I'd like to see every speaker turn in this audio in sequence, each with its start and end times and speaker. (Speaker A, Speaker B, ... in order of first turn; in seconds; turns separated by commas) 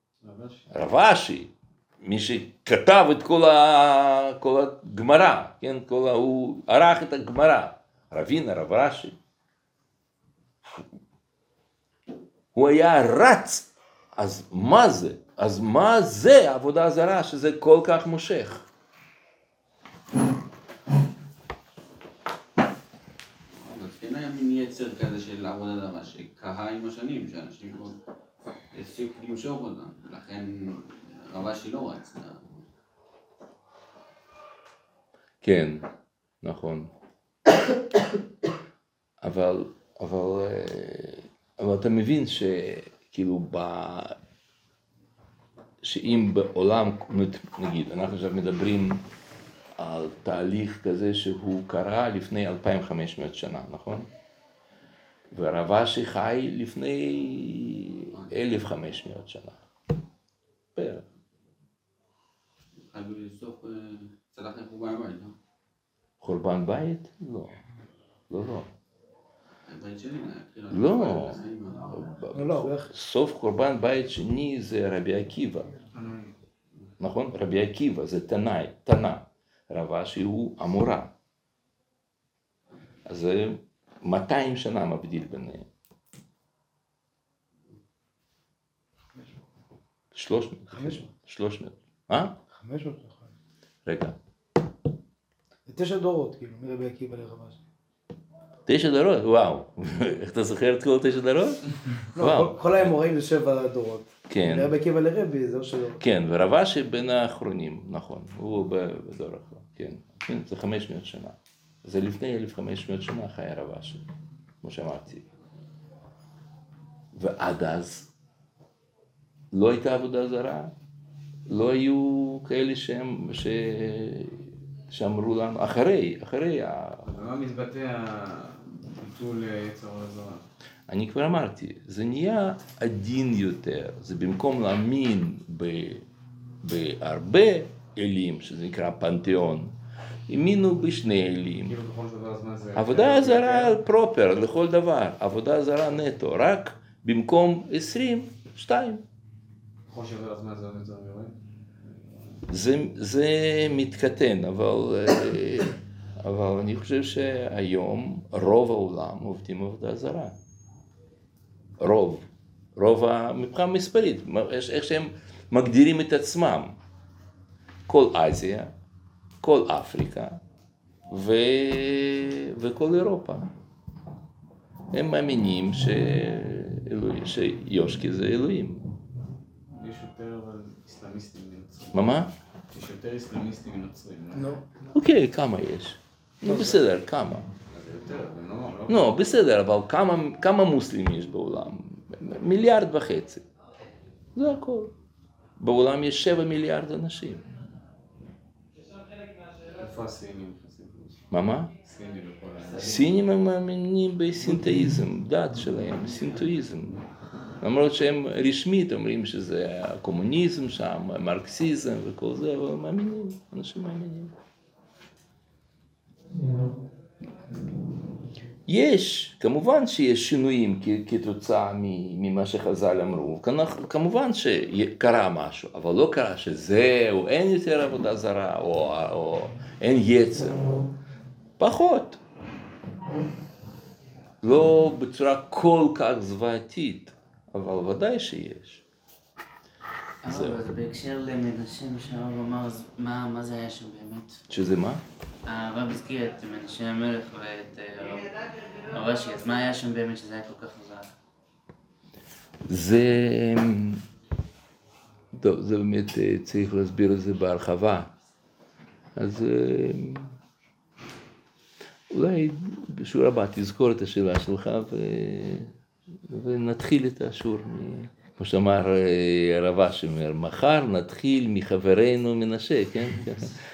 Speaker A: 0.2-0.7, Speaker B: 0.7-9.2, Speaker B: 12.6-18.6, Speaker C: 23.5-28.0, Speaker C: 28.7-32.6, Speaker B: 35.4-35.9, Speaker B: 36.4-36.9, Speaker B: 39.2-44.2, Speaker B: 45.8-49.0, Speaker B: 49.8-54.1, Speaker B: 55.3-59.6, Speaker B: 60.8-61.0, Speaker C: 62.8-65.3, Speaker B: 66.2-67.6, Speaker B: 68.3-68.7, Speaker C: 69.7-72.2, Speaker B: 70.7-75.7, Speaker D: 72.3-72.9, Speaker A: 75.9-76.3, Speaker B: 77.0-81.1, Speaker B: 83.1-85.7, Speaker B: 90.2-92.3, Speaker D: 90.7-91.1, Speaker D: 92.5-93.3, Speaker B: 93.9-94.2, Speaker D: 95.7-97.6, Speaker B: 98.7-103.0, Speaker D: 102.2-106.0, Speaker B: 104.3-104.8, Speaker B: 106.0-114.0, Speaker B: 114.6-115.3, Speaker B: 117.1-118.1, Speaker B: 119.5-120.7, Speaker B: 121.5-127.1, Speaker A: 127.0-130.4, Speaker B: 130.9-136.0, Speaker B: 136.6-139.8, Speaker B: 140.3-141.8, Speaker A: 141.6-143.8, Speaker B: 142.8-149.0, Speaker A: 149.9-151.3, Speaker B: 152.5-160.4, Speaker B: 161.8-162.2, Speaker B: 162.8-166.8, Speaker B: 167.9-168.7, Speaker B: 169.4-170.4, Speaker B: 171.1-173.5, Speaker B: 174.9-178.8, Speaker A: 179.7-182.1, Speaker B: 181.9-182.3, Speaker A: 182.7-184.6, Speaker D: 184.3-184.7, Speaker B: 184.9-187.5, Speaker A: 187.7-189.2, Speaker B: 188.9-193.4, Speaker B: 194.4-194.9, Speaker B: 195.6-197.4, Speaker A: 199.7-201.2, Speaker B: 201.3-201.7, Speaker A: 201.8-203.2, Speaker B: 202.8-207.0, Speaker B: 207.6-214.3, Speaker B: 218.7-230.7, Speaker B: 231.6-232.2, Speaker B: 234.4-238.8, Speaker E: 240.2-244.4, Speaker B: 240.3-240.6, Speaker B: 244.5-245.0, Speaker E: 245.5-251.1, Speaker B: 252.7-254.0, Speaker B: 255.3-258.1, Speaker B: 259.2-260.4, Speaker B: 262.1-265.7, Speaker B: 266.3-273.6